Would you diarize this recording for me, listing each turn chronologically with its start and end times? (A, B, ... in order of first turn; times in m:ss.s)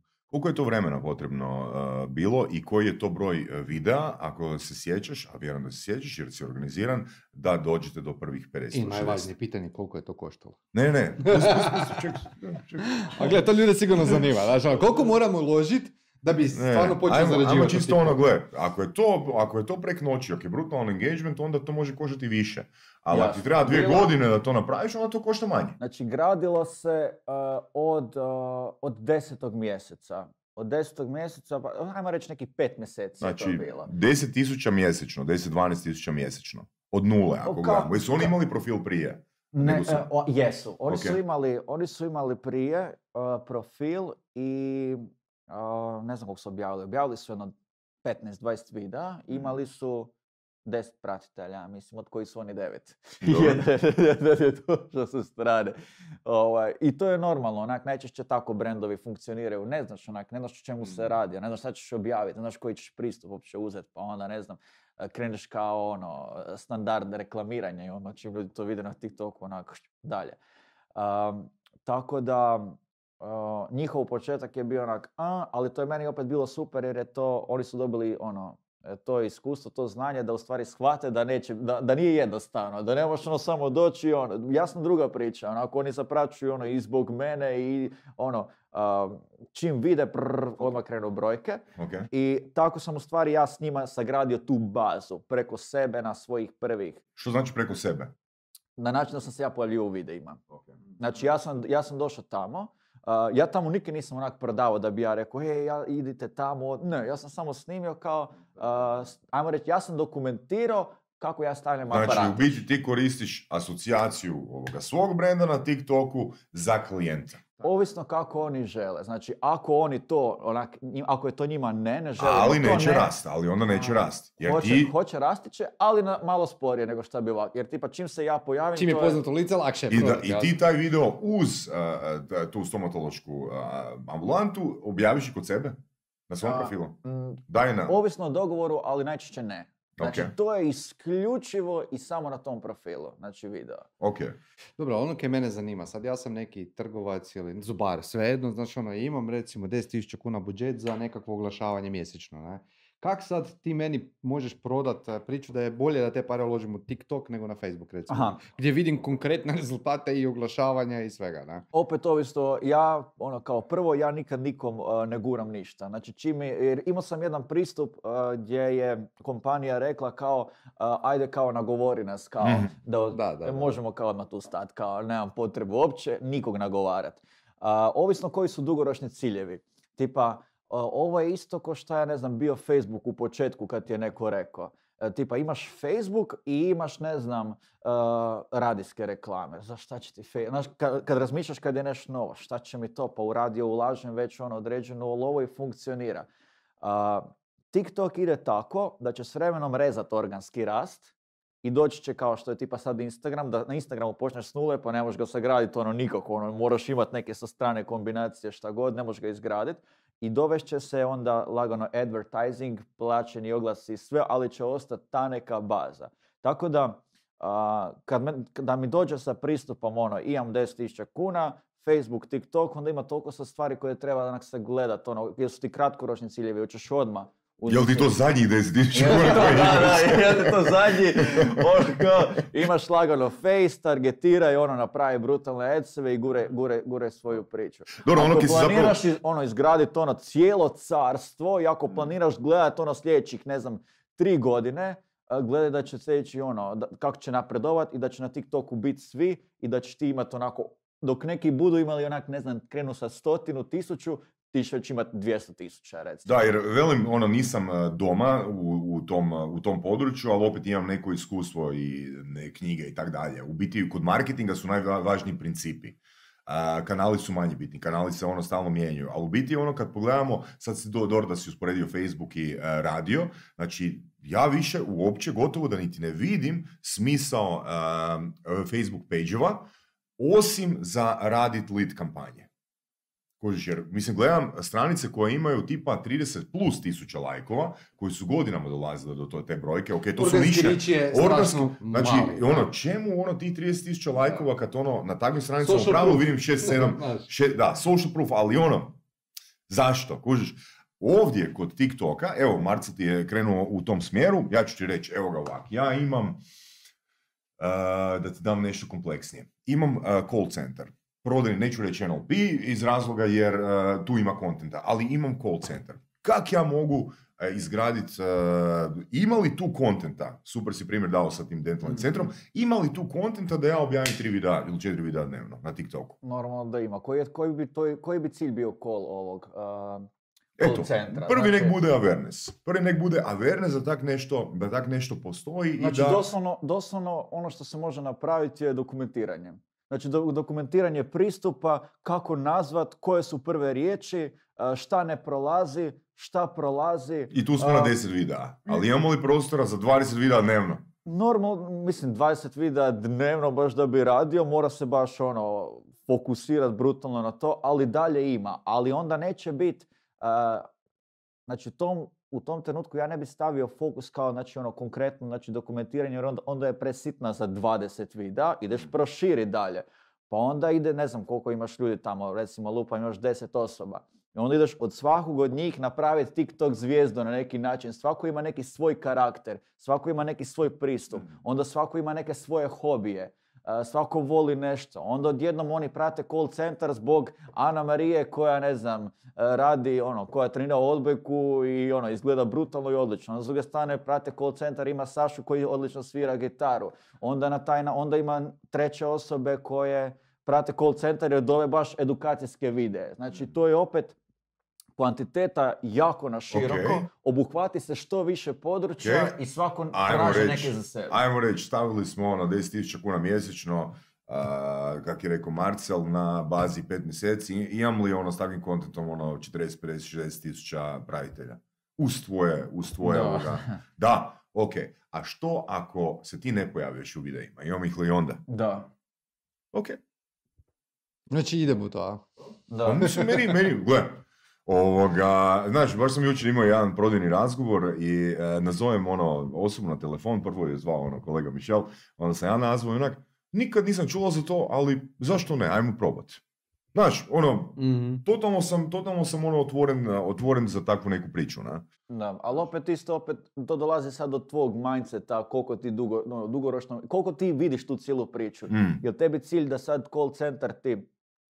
0:00.3-0:09.3 A
0:08.7-0:10.6 B
0:10.7-0:13.4 A
0:11.2-0:12.1 B
0:12.8-0:18.2 B
0:16.5-0:25.8 A
0:23.1-0:24.1 C
0:25.8-0:33.9 C
0:33.2-0:40.1 A
0:37.4-0:38.3 C
0:39.5-0:50.1 C
0:40.9-0:41.2 A
0:50.7-1:10.4 C
0:53.2-0:53.6 A
1:11.0-1:37.0 C
1:31.8-1:32.1 A
1:37.2-1:38.1 A
1:38.8-1:40.4 C
1:41.0-1:52.6 C
1:51.9-1:57.5 A
1:57.6-2:03.1 C
2:02.2-2:04.9 A
2:03.7-2:09.2 C
2:08.8-2:10.5 B
2:09.9-2:15.8 A
2:16.3-2:17.0 A
2:16.4-2:23.9 C
2:17.5-2:18.0 A
2:20.0-2:20.3 A
2:24.0-2:24.4 A
2:24.8-2:41.6 B
2:38.1-2:38.4 C
2:41.7-3:16.3 C
2:52.4-2:52.7 A
2:53.1-2:53.8 B
3:16.8-3:21.1 C
3:21.6-3:48.1 C
3:47.7-3:51.6 A
3:48.9-4:16.3 C
3:58.0-3:59.0 A
4:16.3-4:42.5 A
4:43.4-4:59.0 A
4:50.2-4:52.7 B
4:55.6-4:57.3 B
4:59.7-5:06.4 A
5:07.6-5:26.2 A
5:26.2-5:30.1 C
5:30.6-5:36.3 A
5:30.6-5:31.8 C
5:35.8-5:47.9 C
5:47.3-5:50.8 A
5:51.0-6:00.7 C
6:01.5-6:44.2 C
6:45.0-6:51.2 C
6:46.5-6:47.1 A
6:49.0-6:49.4 A
6:49.9-7:08.4 A
7:03.0-7:03.8 C
7:08.5-7:08.9 C
7:11.3-7:12.3 B
7:12.7-7:13.1 C
7:12.8-7:26.4 A
7:13.0-7:13.6 B
7:26.9-7:31.8 A
7:27.8-7:28.2 B
7:32.1-7:41.1 C
7:38.7-7:39.0 A